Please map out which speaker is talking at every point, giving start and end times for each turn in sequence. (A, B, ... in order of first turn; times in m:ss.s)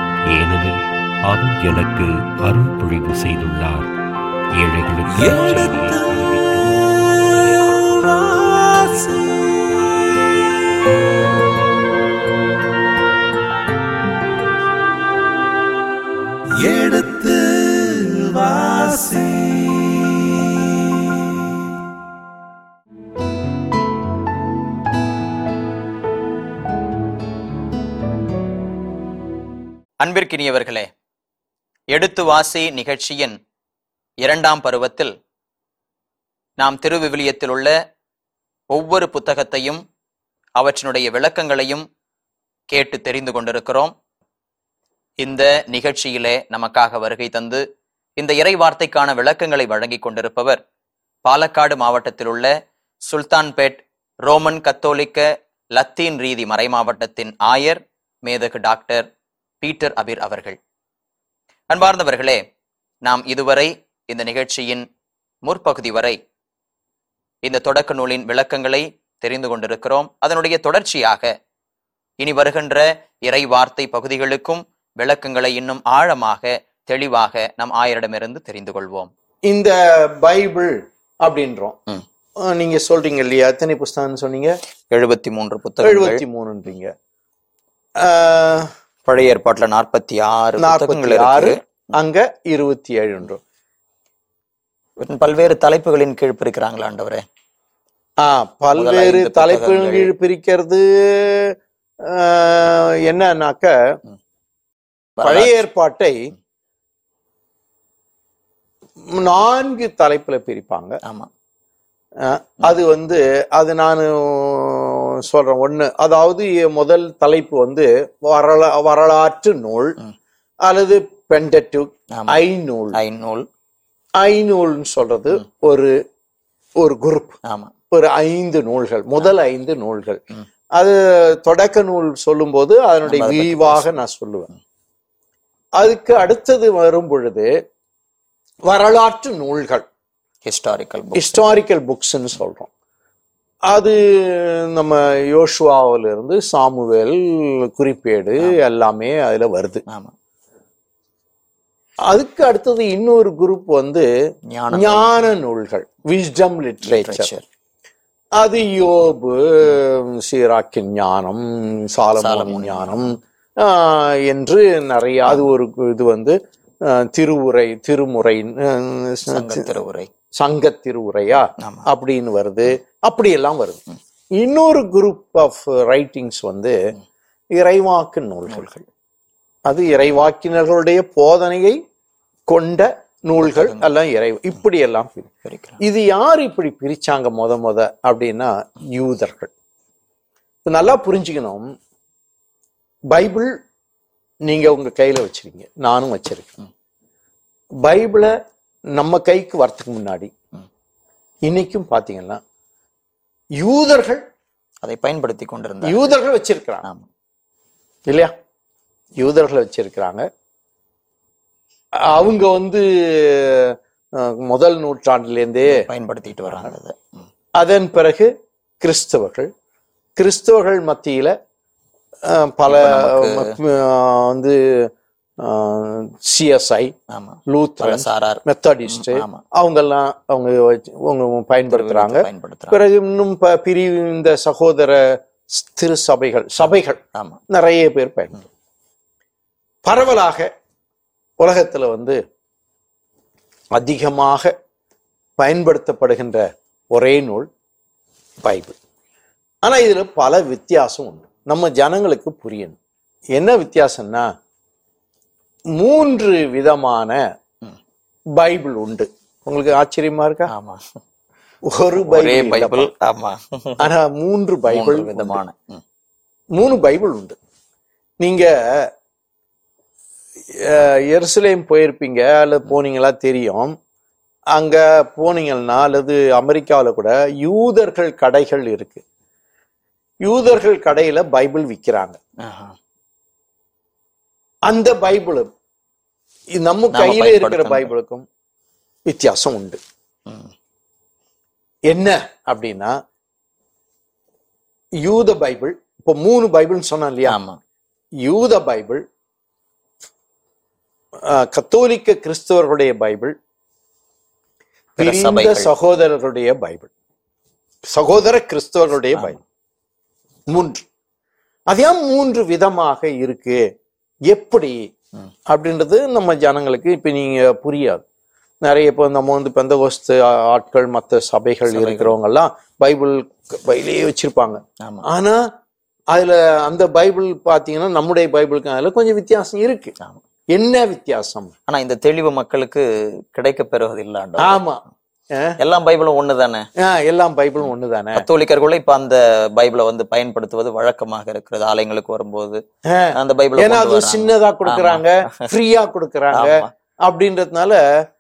0:00.3-0:03.9 A
0:04.6-0:10.9 A
0:30.0-0:30.9 B
0:31.9-0:33.4 B
0:34.2-0:35.1 B
0:36.6-0:37.8 B
0:38.7-0:39.8 B
0:40.6-0:41.8 B
0:42.7-0:43.9 B
0:45.2-0:47.6 B
0:48.2-0:50.6 B
0:51.2-0:52.5 B
0:53.0-0:59.1 B
0:59.6-1:00.6 B
1:01.7-1:02.4 B
1:03.0-1:04.9 B
1:05.4-1:06.2 B
1:07.4-1:11.3 B
1:12.2-1:19.1 B
1:19.5-1:21.8 C
1:22.4-1:24.6 C
1:24.9-1:26.2 B
1:25.8-1:26.9 C
1:28.0-1:28.7 C
1:29.1-1:31.6 B
1:30.6-1:33.4 C
1:35.0-1:37.3 B
1:38.2-1:44.0 C
1:38.8-1:40.1 B
1:45.2-1:45.5 B
1:45.2-1:46.3 C
1:49.1-1:51.0 C
1:51.0-1:51.3 B
1:52.2-2:00.0 C
2:00.6-2:03.0 C
2:02.1-2:02.4 B
2:02.9-2:03.5 B
2:04.2-2:06.0 C
2:06.8-2:07.4 C
2:07.4-2:07.7 B
2:07.9-2:10.2 C
2:10.8-2:14.5 C
2:13.0-2:13.9 B
2:15.8-2:17.5 C
2:18.7-2:19.8 C
2:20.4-2:21.6 B
2:21.2-2:22.7 C
2:23.7-2:29.8 C
2:29.9-2:30.1 B
2:32.1-2:34.1 C
2:34.5-2:35.1 B
2:34.7-2:37.3 C
2:36.8-2:37.4 B
2:38.4-2:49.6 C
2:42.2-2:43.1 B
2:49.3-2:50.1 B
2:50.4-2:53.8 C
2:51.6-2:51.9 B
2:54.4-2:56.8 C
2:57.6-2:58.7 C
2:58.5-2:58.8 B
2:59.7-3:01.8 C
3:02.5-3:09.5 C
3:03.4-3:03.9 B
3:05.4-3:05.8 B
3:10.6-3:11.7 C
3:13.1-3:13.6 C
3:14.5-3:16.6 C
3:17.8-3:18.3 C
3:19.0-3:20.3 C
3:21.4-3:22.4 C
3:23.6-3:24.2 C
3:24.8-3:26.1 B
3:25.8-3:26.8 C
3:28.1-3:28.3 C
3:29.2-3:30.3 C
3:32.1-3:35.8 C
3:35.7-3:37.3 B
3:37.6-3:38.3 C
3:38.8-3:39.5 C
3:40.2-3:41.4 C
3:42.3-3:44.9 C
3:42.7-3:43.5 B
3:45.4-3:46.9 C
3:47.1-3:49.4 B
3:47.5-3:58.5 C
3:51.7-3:52.8 B
3:57.2-3:57.4 B
3:59.8-4:00.5 C
4:01.4-4:02.2 C
4:03.8-4:04.5 C
4:05.4-4:07.5 C
4:08.4-4:08.8 C
4:09.6-4:12.8 C
4:13.4-4:14.3 C
4:15.8-4:17.2 C
4:18.4-4:20.5 C
4:20.5-4:21.0 B
4:21.7-4:22.9 C
4:22.0-4:23.9 B
4:23.8-4:25.4 C
4:24.7-4:25.8 B
4:26.6-4:27.4 C
4:28.2-4:28.9 C
4:30.6-4:33.8 C
4:34.6-4:39.0 C
4:40.2-4:42.2 C
4:42.4-4:42.8 B
4:44.7-4:45.5 C
4:46.6-4:48.2 C
4:46.9-4:47.9 B
4:49.1-4:49.8 C
4:50.3-4:50.5 B
4:51.9-4:53.0 C
4:55.0-4:57.4 C
4:57.3-4:57.6 B
4:58.2-4:59.0 C
5:01.3-5:03.4 C
5:05.0-5:06.9 C
5:05.0-5:05.7 B
5:07.9-5:09.4 C
5:10.5-5:10.8 C
5:11.7-5:13.6 C
5:14.3-5:14.8 C
5:15.5-5:18.0 C
5:18.6-5:25.5 C
5:21.7-5:22.2 B
5:24.8-5:25.0 B
5:26.1-5:30.0 C
5:30.5-5:31.5 C
5:31.7-5:34.6 B
5:34.4-5:34.8 C
5:35.6-5:36.7 B
5:36.8-5:38.2 C
5:38.2-5:42.6 B
5:42.9-5:47.8 C
5:43.1-5:45.5 B
5:46.3-5:46.7 B